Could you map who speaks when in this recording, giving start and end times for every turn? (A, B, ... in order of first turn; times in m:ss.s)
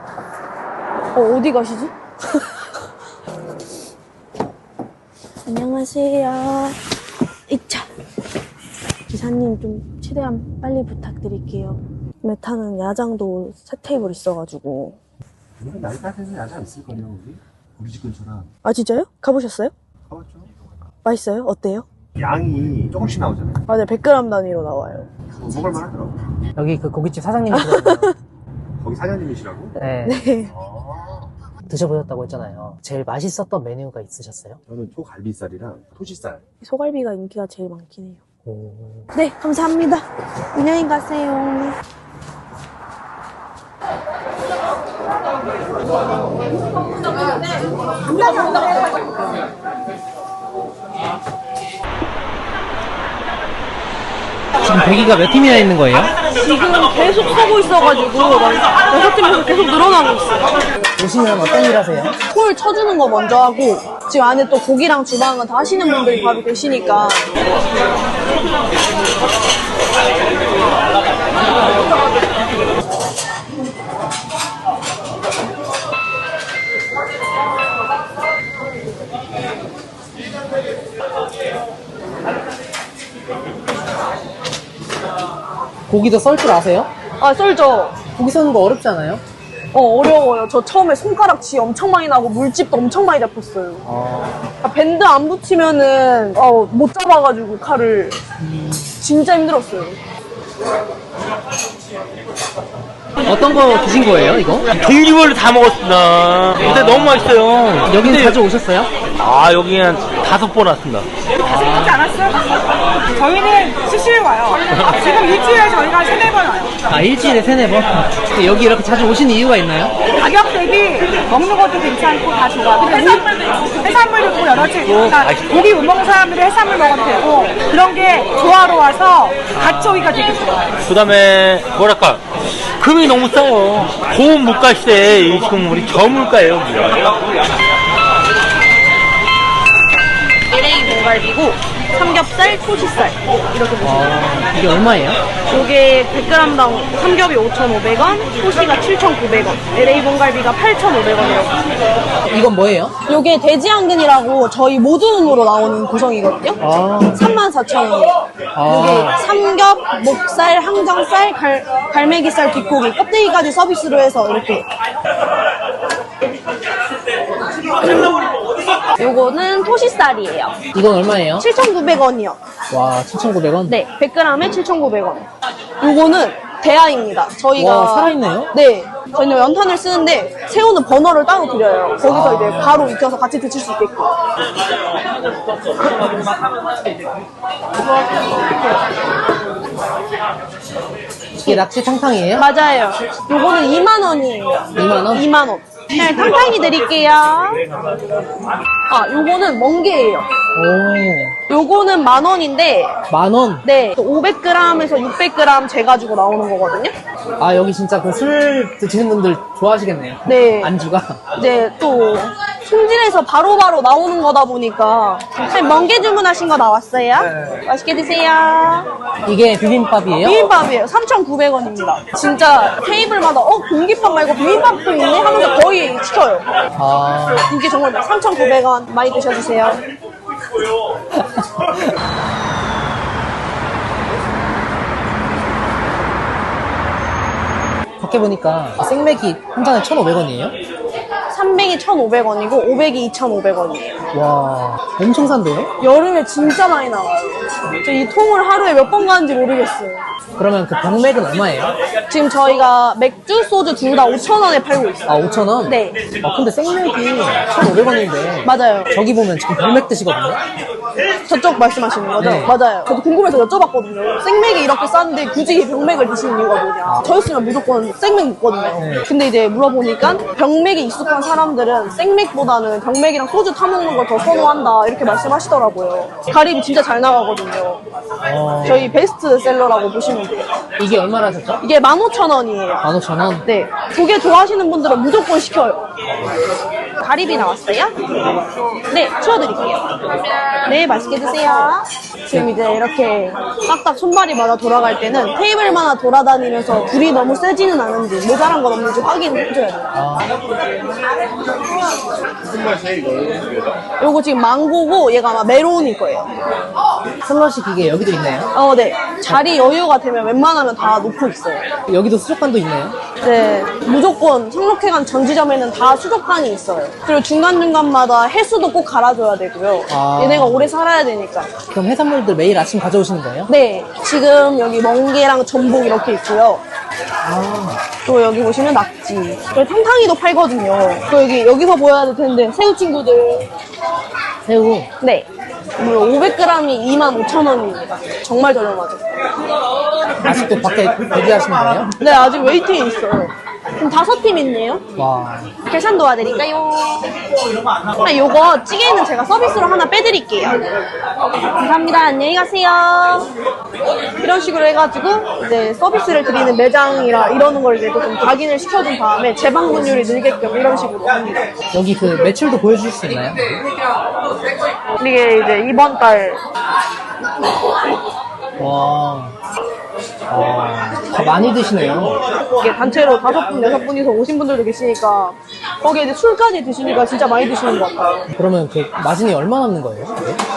0:01.1-0:02.4 A
0:05.4-0:06.8 A
0:07.5-0:07.9 A
0:09.1-0:15.0 A
0:15.6-0:18.5 B
0:18.6-0:19.7 A
0:20.1-0:20.5 B
0:21.0-0:21.8 A
0:22.2-0:23.6 B
0:23.7-0:25.1 A
0:25.3-0:26.2 B
0:26.6-0:28.1 C
0:27.5-0:28.1 A
0:28.8-0:29.7 B
0:29.8-0:30.5 A
0:29.8-0:30.2 C
0:30.6-0:31.2 B
0:31.6-0:34.6 C
0:34.7-0:36.4 B
0:36.6-0:38.2 A
0:38.4-0:39.1 C
0:39.1-0:40.0 A
0:40.5-0:41.8 A
0:54.6-0:56.1 C
0:56.4-1:00.6 A
1:01.0-1:02.1 C
1:02.3-1:07.3 A
1:25.9-1:26.9 C
1:27.2-1:28.0 A
1:28.1-1:29.2 C
1:29.7-1:33.8 A
1:33.8-1:34.4 C
1:34.6-1:38.2 A
1:39.0-1:40.0 A
1:43.2-1:44.7 C
1:44.7-1:48.4 D
1:46.6-1:48.9 C
1:49.2-1:51.1 D
1:51.4-1:52.1 C
1:51.6-1:52.4 E
1:53.1-1:56.7 E
1:54.7-1:55.0 D
1:56.9-2:00.0 C
2:00.2-2:10.6 E
2:04.7-2:05.7 D
2:09.6-2:10.2 C
2:09.6-2:10.1 D
2:10.8-2:12.2 D
2:12.8-2:17.2 D
2:20.5-2:24.3 A
2:23.8-2:25.2 C
2:25.5-2:31.5 A
2:32.2-2:32.9 C
2:33.1-2:44.6 A
2:36.6-2:37.2 C
2:38.5-2:39.2 C
2:49.0-2:50.6 A
2:50.7-2:51.5 C
2:51.4-2:52.4 A
2:52.7-2:53.8 C
2:53.7-2:55.3 A
2:55.8-3:04.1 A
2:57.6-2:58.5 C
3:02.0-3:02.9 C
3:11.4-3:12.5 C
3:12.4-3:17.6 A
3:14.8-3:15.2 C
3:18.9-3:20.3 A
3:20.5-3:21.4 C
3:21.5-3:23.0 A
3:23.1-3:23.6 C
3:23.6-3:26.9 A
3:27.4-3:31.2 C
3:30.2-3:30.7 A
3:31.4-3:38.9 A
3:39.2-3:40.5 C
3:40.2-3:46.5 A
3:46.8-3:47.6 C
3:47.5-3:49.8 A
3:51.3-3:51.8 C
3:58.0-4:00.5 C
4:01.3-4:04.0 A
4:04.1-4:05.7 C
4:05.8-4:10.0 A
4:10.4-4:11.7 C
4:12.1-4:16.0 A
4:15.1-4:20.4 C
4:18.4-4:18.9 A
4:21.3-4:37.8 A
4:22.2-4:22.6 C
4:26.8-4:27.1 C
4:28.8-4:29.0 C
4:38.2-4:39.0 C
4:38.6-4:40.5 A
4:40.8-4:41.6 C
4:41.6-4:42.8 A
4:42.8-4:43.4 C
4:43.4-4:45.9 A
4:47.0-4:47.9 A
4:48.9-4:49.8 A
4:50.7-4:59.9 A
4:59.9-5:00.3 C
5:04.0-5:06.3 A
5:07.2-5:08.5 C
5:08.5-5:11.6 A
5:11.9-5:13.0 C
5:13.2-5:21.5 A
5:19.9-5:20.7 C
5:21.7-5:23.5 C
5:23.5-5:26.6 A
5:27.2-5:27.8 C
5:28.0-5:33.5 A
5:34.4-5:34.9 C
5:35.0-5:35.3 A
5:35.8-5:39.0 A
5:40.2-5:41.9 C
5:42.0-5:44.8 A
5:45.0-5:45.5 C
5:45.6-5:47.1 A
5:48.0-5:50.7 A
5:51.6-5:53.3 A
5:54.2-6:01.5 A
6:01.7-6:03.6 C
6:05.0-6:06.4 A
6:08.6-6:09.4 C
6:10.3-6:12.2 C
6:12.6-6:18.2 A
6:18.3-6:20.4 C